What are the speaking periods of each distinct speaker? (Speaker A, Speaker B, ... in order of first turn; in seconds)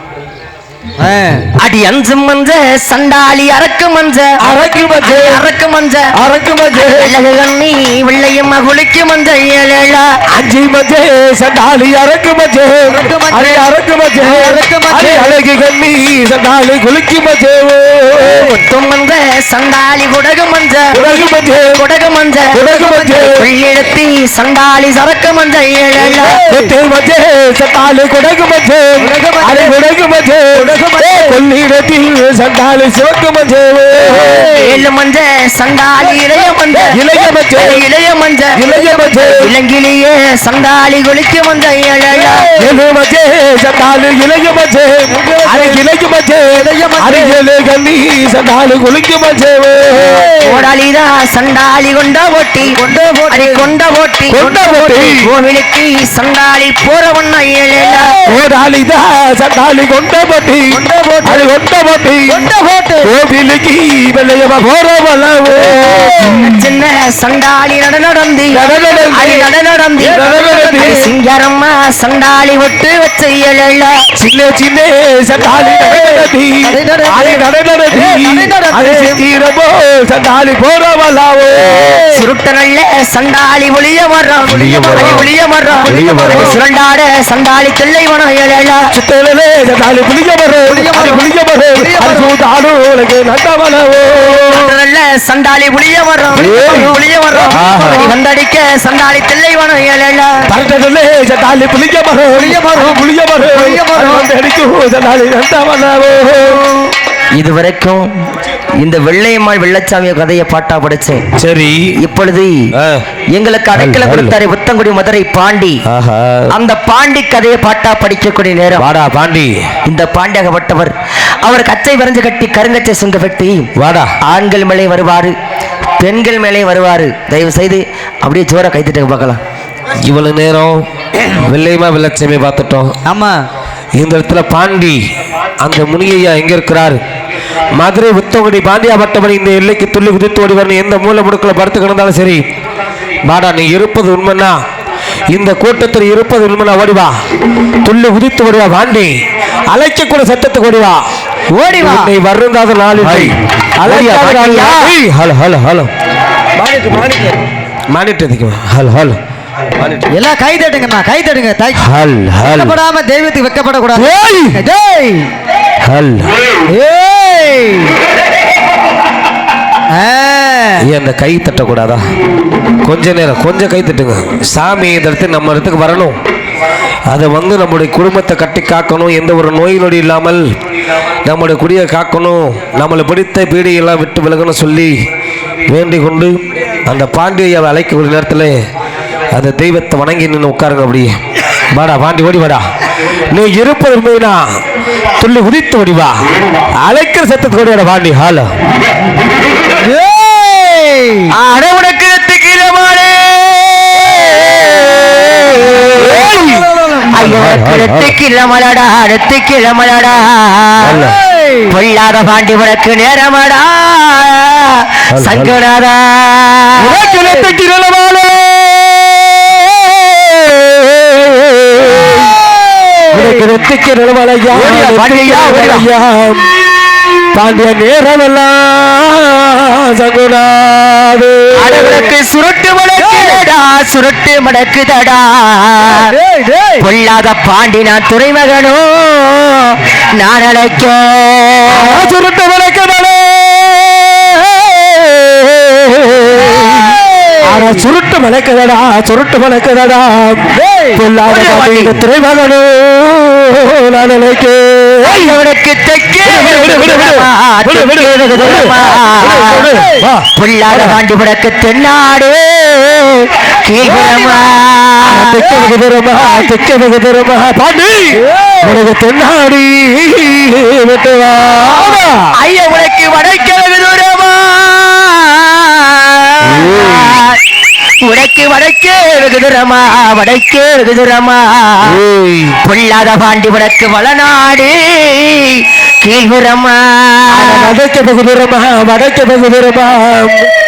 Speaker A: 1.0-1.5, 12.9-15.3, 26.0-26.7, 29.0-29.8, 30.6-31.4, 34.1-34.9, 36.2-37.3, 42.1-42.7, 45.1-45.8, 46.5-47.4, 50.0-50.6, 52.7-53.7, 54.4-55.0, 57.9-58.3, 60.7-61.5, 62.3-63.1, 65.7-66.6, 70.0-71.1, 75.5-79.2, 81.6-82.2, 84.8-86.6, 90.7-92.3, 96.6-98.1, 102.3-104.3, 133.1-133.4, 151.5-152.1, 160.1-161.8, 162.4-165.3, 166.7-168.0, 169.9-170.9, 199.8-201.3, 205.8-207.1, 211.0-211.7, 217.0-217.5, 222.4-223.4, 233.0-233.4, 235.9-236.8, 246.5-247.8, 250.6-251.0, 259.2-260.1, 268.2-268.8
Speaker B: 1.6-4.5, 5.0-6.1, 6.8-10.1, 18.1-21.1, 21.7-26.4, 34.1-37.0, 37.5-42.5, 50.4-52.8, 53.3-58.2, 66.1-70.2, 70.8-74.0, 82.1-88.9, 94.5-100.5, 107.3-108.1, 108.8-111.3, 112.0-112.7, 113.3-115.8, 116.5-118.9, 119.8-123.7, 124.2-125.3, 126.0-129.4, 153.0-154.9, 201.3-206.1, 207.1-211.0, 211.7-216.8, 224.5-225.9, 231.6-236.1, 236.8-242.1, 251.3-252.0, 255.0-259.7, 260.3-263.0, 263.6-265.5, 271.6-277.4, 278.0-282.0, 282.6-287.7
Speaker C: 4.4-5.4, 6.2-7.1, 10.3-18.5, 20.9-21.8, 22.5-23.4, 26.4-34.5, 36.9-37.8, 38.6-39.5, 42.5-50.3, 54.3-55.2, 58.3-62.5, 63.0-66.3, 68.5-69.5, 70.0-71.0, 74.2-82.0, 84.5-85.3, 85.9-86.6, 88.9-94.7, 96.4-96.9, 97.5-98.1, 100.5-106.6, 111.3-112.0, 112.8-113.0, 113.8-114.4, 115.9-116.5, 118.8-119.6, 123.8-124.1, 130.0-132.9, 134.0-135.0, 135.6-137.0, 137.8-142.4, 143.3-144.6, 145.3-147.1, 147.8-149.2, 149.7-151.0, 151.8-155.9, 156.6-157.4, 157.9-159.2, 159.8-160.1, 161.8-162.8, 163.9-164.6, 165.8-166.3, 170.8-172.0, 172.8-176.2, 177.1-180.5, 181.2-184.9, 185.7-188.6, 189.3-191.2, 191.7-192.7, 193.3-194.6, 195.2-196.2, 196.8-198.5, 205.6-208.2, 210.8-211.2, 215.1-215.6, 216.8-222.4, 223.1-226.5, 227.3-232.1, 241.7-255.4, 256.2-261.0, 262.9-263.3, 263.8-264.4, 265.0-272.3, 276.4-277.2, 281.9-282.6, 287.3-290.5